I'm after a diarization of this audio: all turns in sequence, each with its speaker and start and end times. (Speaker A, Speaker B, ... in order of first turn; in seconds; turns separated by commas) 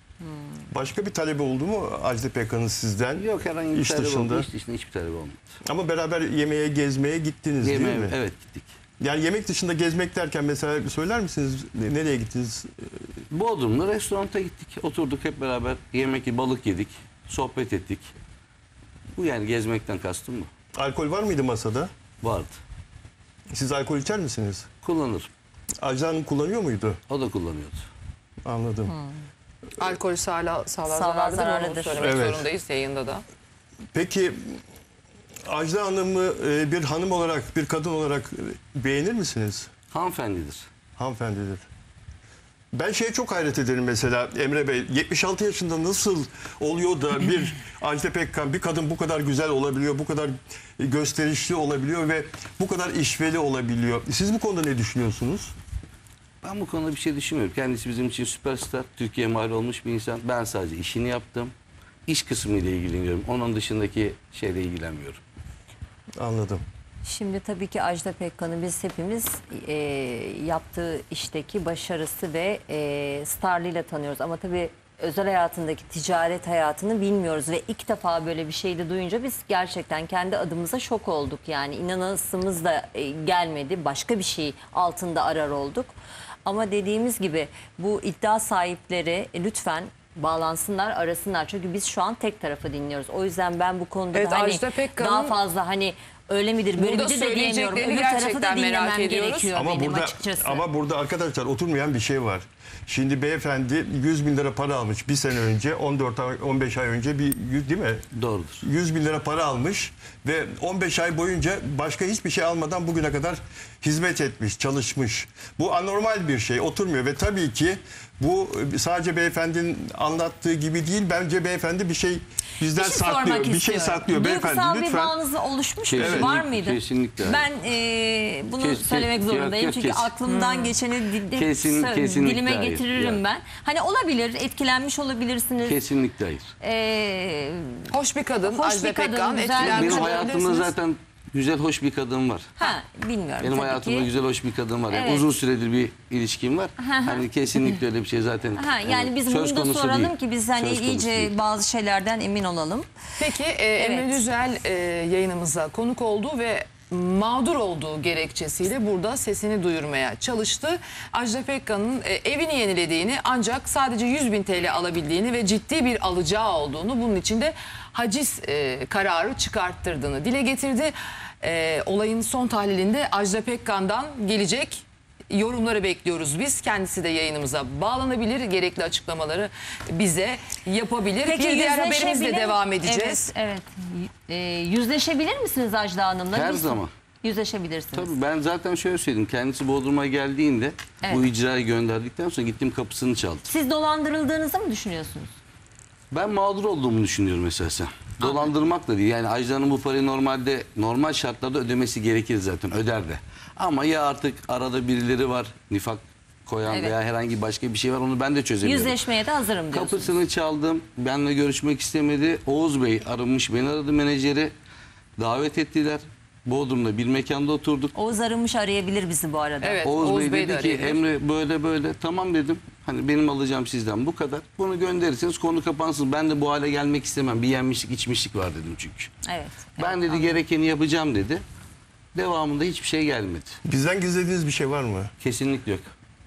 Speaker A: 0.2-0.6, Speaker B: 0.7-4.5, Speaker C: 3.1-5.4, Speaker B: 5.7-8.2, Speaker C: 7.6-8.7, Speaker B: 9.0-12.7, Speaker C: 13.3-18.1, Speaker C: 19.1-20.5, Speaker B: 20.8-21.9, Speaker C: 22.2-22.6, Speaker B: 23.5-24.7, Speaker C: 24.8-25.3, Speaker B: 25.8-27.0, Speaker C: 27.1-27.9, Speaker B: 28.4-28.9, Speaker A: 28.9-29.2, Speaker D: 29.8-33.2, Speaker A: 30.9-32.2, Speaker B: 32.0-32.5, Speaker B: 33.9-34.6, Speaker B: 35.5-39.7, Speaker C: 39.9-40.7, Speaker B: 41.0-41.6, Speaker B: 42.7-55.5, Speaker C: 56.4-61.5, Speaker C: 62.1-65.2, Speaker B: 66.2-66.6, Speaker A: 67.0-86.0, Speaker A: 86.5-100.6, Speaker D: 94.1-95.4, Speaker D: 96.8-99.5, Speaker B: 99.5-108.1, Speaker C: 108.1-108.6, Speaker B: 108.6-125.2, Speaker A: 122.7-135.8, Speaker C: 125.8-127.5, Speaker B: 125.9-126.3, Speaker C: 128.6-130.2, Speaker D: 130.3-130.8, Speaker C: 131.3-133.2, Speaker C: 135.6-136.5, Speaker A: 136.6-137.9, Speaker D: 137.9-140.7, Speaker A: 138.4-140.5, Speaker C: 139.6-142.7, Speaker A: 142.6-144.1, Speaker C: 143.4-151.3, Speaker A: 144.9-145.3, Speaker A: 146.8-147.8, Speaker A: 148.6-152.9, Speaker D: 153.2-183.3, Speaker A: 153.8-154.2, Speaker A: 181.2-188.1, Speaker C: 186.3-186.9, Speaker C: 187.9-193.5, Speaker A: 191.0-191.3, Speaker A: 193.5-195.3, Speaker C: 196.1-209.0, Speaker A: 198.2-198.5, Speaker A: 206.7-206.9, Speaker A: 208.6-210.2, Speaker C: 209.7-214.5, Speaker C: 215.2-217.9, Speaker A: 217.9-219.8, Speaker D: 219.6-221.0, Speaker C: 219.8-229.1, Speaker A: 229.3-230.4, Speaker C: 229.8-231.4, Speaker C: 232.2-233.6, Speaker B: 233.7-235.1, Speaker C: 235.2-235.9